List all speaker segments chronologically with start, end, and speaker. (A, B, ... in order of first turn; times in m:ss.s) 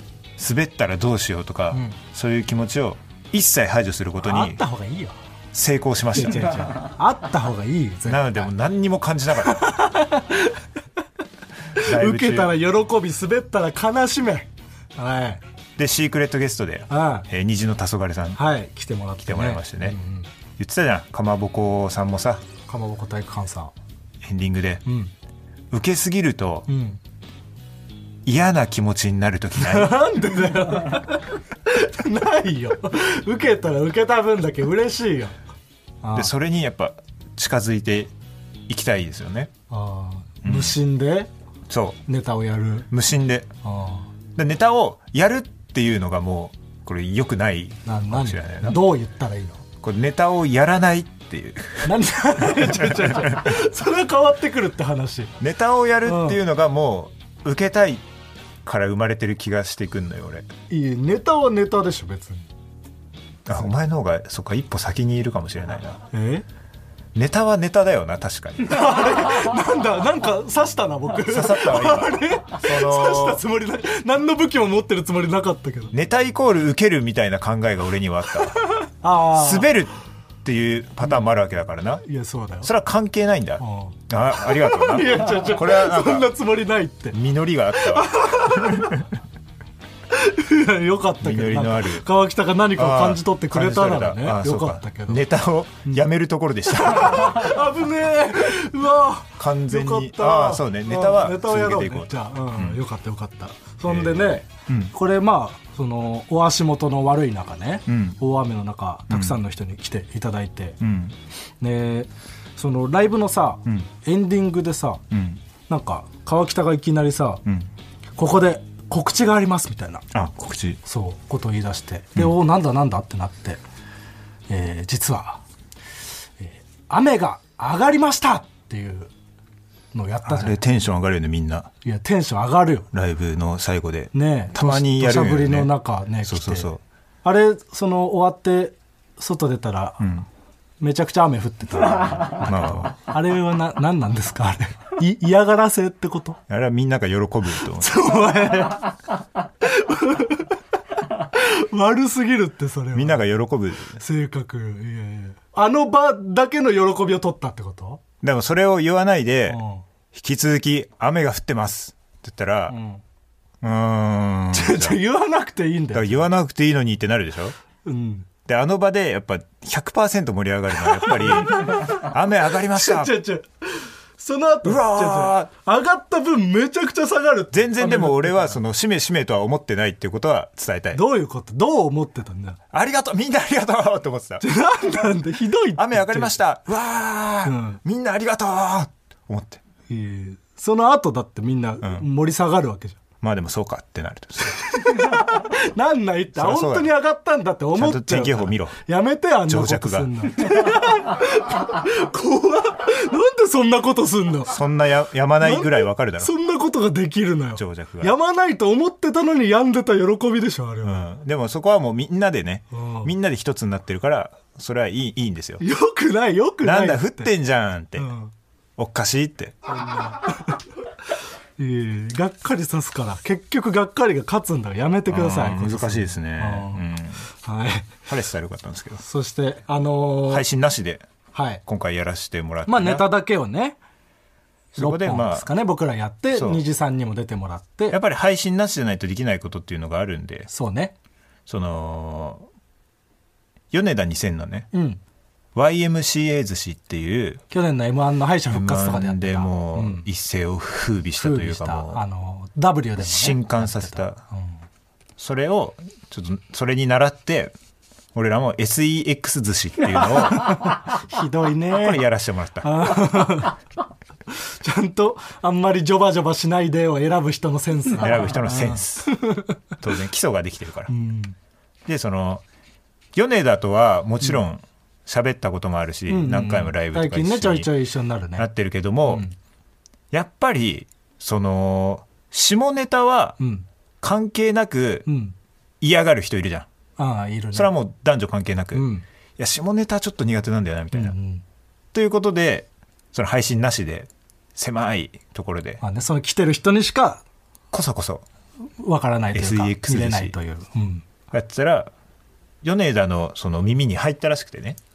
0:00.4-0:04.6 A
0:01.7-0:02.0 B
0:04.2-0:05.2 B
0:05.5-0:06.9 A
0:06.1-0:08.5 B
0:08.1-0:09.8 A
0:09.4-0:10.6 B
0:11.7-0:15.4 B
0:11.8-0:12.5 A
0:15.8-0:18.4 A
0:16.9-0:17.3 B
0:18.4-0:20.3 B
0:19.2-0:20.0 A
0:20.6-0:22.4 A
0:22.6-0:23.7 B
0:24.2-0:24.8 A
0:24.8-0:25.1 B
0:25.7-0:26.7 A
0:26.7-0:27.0 B
0:28.2-0:30.1 A
0:29.6-0:35.4 B
0:36.0-0:36.3 B
0:36.1-0:38.1 A
0:38.7-0:39.5 A
0:39.7-0:41.3 B
0:40.4-0:40.8 A
0:41.7-0:42.0 A
0:42.1-0:42.9 B
0:42.9-0:43.5 A
0:43.6-0:44.1 B
0:44.3-0:48.8 A
0:47.8-0:49.6 B
0:49.8-0:53.6 A
0:51.8-0:55.3 B
0:55.4-0:58.0 A
0:56.0-0:56.4 B
0:58.6-1:00.5 A
1:00.7-1:02.4 B
1:03.4-1:06.0 A
1:06.1-1:06.4 B
1:07.1-1:09.0 A
1:08.6-1:15.9 B
1:11.3-1:13.4 A
1:15.9-1:18.6 A
1:18.7-1:19.7 B
1:19.3-1:22.0 A
1:22.0-1:22.7 B
1:22.6-1:26.3 A
1:23.6-1:27.2 B
1:27.1-1:29.0 A
1:27.7-1:29.0 B
1:30.1-1:35.2 B
1:31.2-1:32.0 A
1:32.8-1:37.6 A
1:36.8-1:50.8 B
1:39.4-1:42.8 A
1:43.9-1:44.9 A
1:47.9-1:48.2 A
1:49.1-1:49.4 A
1:50.8-1:51.2 A
1:51.6-1:55.0 B
1:55.1-1:55.4 A
1:55.7-1:57.4 B
1:58.2-2:00.0 B
2:00.1-2:00.8 A
2:00.8-2:03.6 B
2:04.5-2:05.4 B
2:06.4-2:09.1 B
2:09.9-2:10.6 B
2:10.2-2:11.7 A
2:11.8-2:12.9 B
2:12.9-2:16.8 A
2:14.1-2:16.7 B
2:17.2-2:20.0 B
2:20.0-2:20.3 A
2:20.8-2:26.4 B
2:22.4-2:22.9 A
2:26.5-2:28.0 A
2:27.7-2:28.9 B
2:29.6-2:30.5 B
2:31.1-2:33.2 B
2:32.9-2:34.0 A
2:34.0-2:38.0 B
2:38.2-2:39.6 A
2:39.5-2:39.8 B
2:40.1-2:42.8 A
2:42.7-2:43.0 B
2:43.6-2:45.0 A
2:44.5-2:46.3 B
2:45.9-2:47.6 A
2:47.8-2:48.3 B
2:48.4-2:53.1 A
2:50.9-2:52.0 B
2:52.7-2:58.6 B
2:54.6-2:55.5 A
2:57.5-3:01.0 A
3:00.9-3:02.6 B
3:02.7-3:04.4 A
3:04.4-3:06.4 B
3:05.7-3:09.6 A
3:07.4-3:07.8 B
3:09.9-3:13.0 B
3:13.2-3:15.3 A
3:14.5-3:24.5 B
3:16.3-3:16.9 A
3:17.7-3:18.8 A
3:19.4-3:20.1 A
3:24.5-3:26.3 A
3:25.4-3:31.1 B
3:27.5-3:28.1 A
3:30.8-3:35.6 A
3:32.7-3:33.1 B
3:35.6-3:37.3 B
3:36.6-3:38.1 A
3:38.0-3:38.3 B
3:38.8-3:39.6 A
3:39.7-3:40.6 B
3:41.6-3:48.0 B
3:45.1-3:47.2 A
3:48.1-3:49.0 A
3:49.0-3:50.4 B
3:50.3-3:51.1 A
3:51.3-3:51.6 B
3:51.6-3:53.0 A
3:52.6-3:53.8 B
3:54.8-3:55.4 A
3:54.8-3:58.0 B
3:56.3-3:56.6 A
3:57.9-4:00.5 A
4:00.5-4:00.9 B
4:01.5-4:02.5 A
4:03.7-4:04.7 A
4:04.7-4:05.0 B
4:05.5-4:07.4 A
4:07.5-4:10.1 B
4:08.5-4:12.0 A
4:11.2-4:14.5 B
4:13.0-4:14.2 A
4:15.2-4:17.5 A
4:18.1-4:20.7 A
4:20.1-4:22.0 B
4:21.7-4:23.1 A
4:22.6-4:23.6 B
4:24.3-4:29.6 B
4:28.0-4:29.2 A
4:29.8-4:30.9 A
4:30.9-4:31.3 B
4:31.8-4:32.4 A
4:33.1-4:37.7 A
4:36.1-4:38.5 B
4:38.4-4:39.2 A
4:39.0-4:39.3 B
4:40.1-4:43.4 A
4:43.4-4:43.6 B
4:44.0-4:45.0 A
4:45.0-4:45.3 B
4:45.8-4:46.7 A
4:47.0-4:47.7 B
4:47.5-4:51.1 A
4:48.7-4:49.0 B
4:50.9-4:51.4 B
4:51.9-4:55.8 A
4:55.8-4:57.2 B
4:57.7-4:58.2 A
4:58.8-5:01.0 B
4:59.3-5:00.3 A
5:01.3-5:01.9 A
5:02.6-5:04.8 A